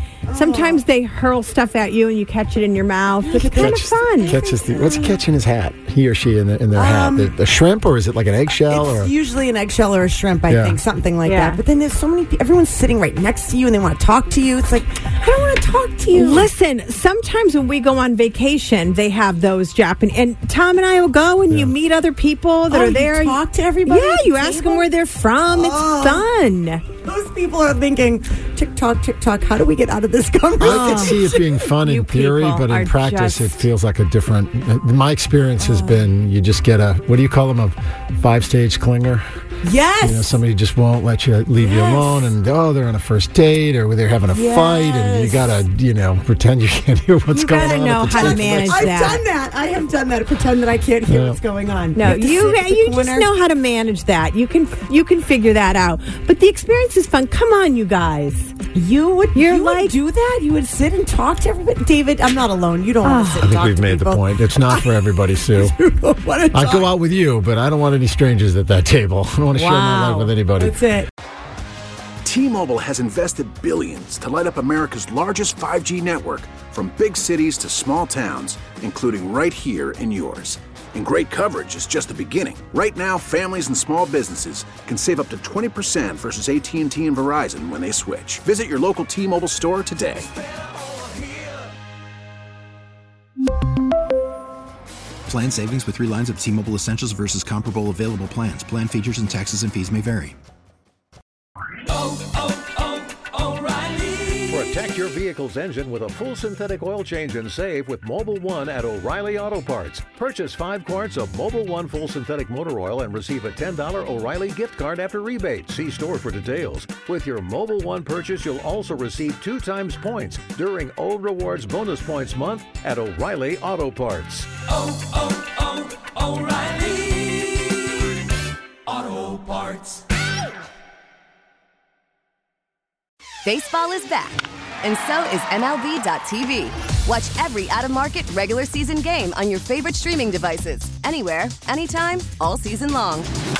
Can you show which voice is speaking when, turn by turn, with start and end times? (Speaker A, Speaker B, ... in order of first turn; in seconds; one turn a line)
Speaker A: 0.3-0.8
Speaker B: 0.3-4.4
Speaker A: 3.2-5.2
Speaker C: 3.4-9.1
Speaker A: 6.7-7.3
Speaker A: 8.7-16.5
Speaker C: 10.5-10.8
Speaker B: 11.2-11.6
Speaker B: 16.1-26.8
Speaker A: 22.7-24.9
Speaker A: 25.5-26.2
Speaker A: 27.0-31.5
Speaker B: 30.6-31.2
Speaker C: 30.6-39.2
Speaker B: 31.8-33.6
Speaker A: 35.6-36.1
Speaker A: 39.6-40.4
Speaker C: 40.0-48.9
Speaker A: 41.6-42.3
Speaker A: 44.3-45.6
Speaker B: 47.3-49.2
Speaker A: 47.5-53.3
Speaker C: 51.1-51.4
Speaker B: 51.9-58.5
Speaker A: 58.7-64.9
Speaker B: 59.3-60.0
Speaker B: 63.0-63.5
Speaker C: 63.4-65.7
Speaker A: 65.5-66.9
Speaker C: 66.5-70.8
Speaker B: 69.5-70.3
Speaker A: 70.6-71.1
Speaker D: 72.2-90.3
Speaker E: 95.3-100.3
Speaker F: 103.7-124.5
Speaker G: 133.4-143.3